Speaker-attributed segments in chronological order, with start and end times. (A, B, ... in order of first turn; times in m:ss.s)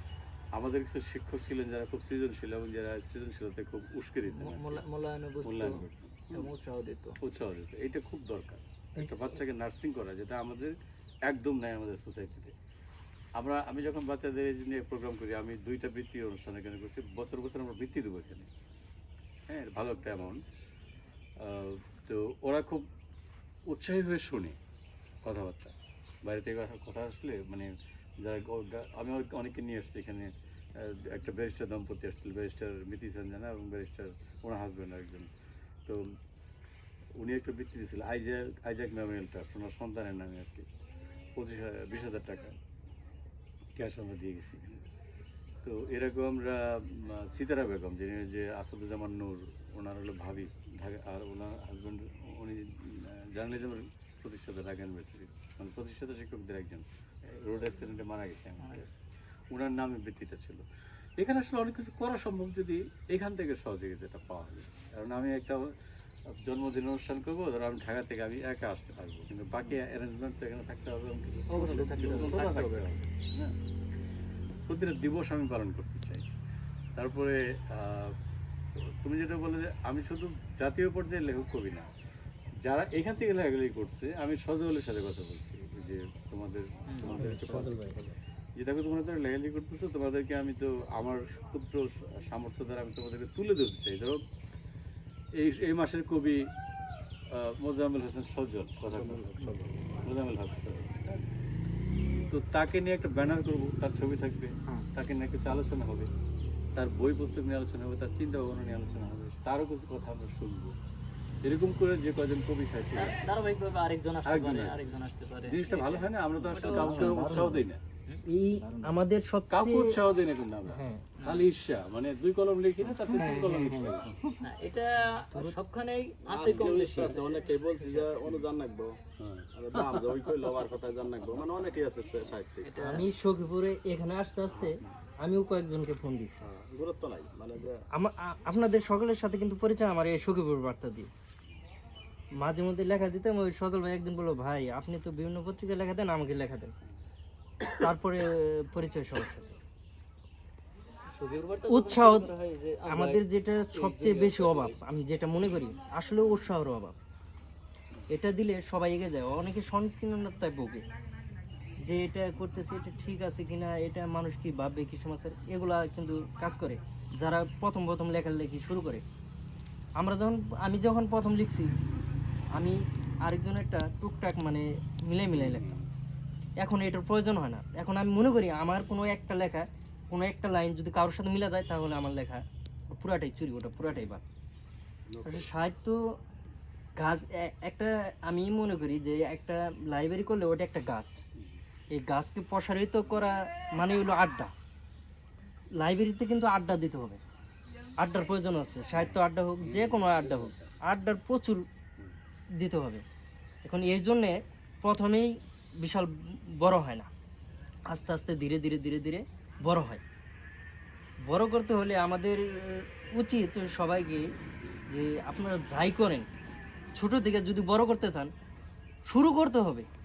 0:00.5-0:04.8 A
0:04.4-0:07.2 B
0:05.4-0:06.5 A
0:07.2-0:10.7 A
0:11.2-0:12.5 A
0:13.4-0:18.5 A
0:19.5-0:20.4 A
0:21.4-0:22.8 A
0:23.7-0:24.6 A
0:25.2-0:35.3 A
0:37.2-0:40.7 A
0:41.4-0:42.6 A
0:43.7-0:44.8 A
0:45.6-0:58.9 A
0:58.6-0:58.9 B
0:59.5-1:00.6 A
1:01.2-1:05.7 A
1:06.3-1:13.5 A
1:11.5-1:13.0 B
1:14.7-1:16.3 A
1:17.0-1:18.1 A
1:19.0-1:21.9 A
1:22.6-1:34.2 A
1:26.9-1:27.3 B
1:27.1-1:28.0 C
1:35.3-1:36.5 A
1:37.3-1:41.2 A
1:38.9-1:39.9 D
1:42.3-1:46.1 A
1:46.7-1:50.7 A
1:51.4-1:53.3 A
1:53.0-1:57.6 B
1:54.2-1:54.8 A
1:55.4-1:57.8 A
1:56.7-1:57.6 C
1:58.2-2:00.0 C
1:59.5-2:04.1 A
2:00.7-2:01.0 C
2:01.2-2:01.5 B
2:03.1-2:03.9 C
2:04.4-2:07.4 B
2:06.2-2:09.0 D
2:09.2-2:09.4 A
2:09.6-2:12.7 D
2:09.8-2:10.2 B
2:12.6-2:13.1 B
2:12.8-2:16.4 C
2:16.4-2:17.8 D
2:17.9-2:21.1 C
2:22.4-2:26.7 C
2:27.7-2:29.6 C
2:31.1-2:33.2 B
2:31.7-2:32.3 C
2:32.9-2:37.0 C
2:33.7-2:34.7 B
2:38.1-2:40.8 C
2:41.8-2:49.0 C
2:50.0-2:51.7 C
2:52.6-2:55.7 C
2:55.4-2:55.8 D
2:56.6-3:04.2 C
3:05.1-3:05.6 D
3:05.2-3:06.0 C
3:07.0-3:11.2 C
3:11.9-3:14.5 C
3:15.8-3:17.2 C
3:18.0-3:21.6 C
3:19.6-3:20.5 A
3:22.6-3:23.0 C
3:23.6-3:27.1 C
3:27.9-3:30.0 C
3:31.3-3:34.3 C
3:34.9-3:36.3 C
3:36.9-3:38.3 C
3:39.1-3:39.9 C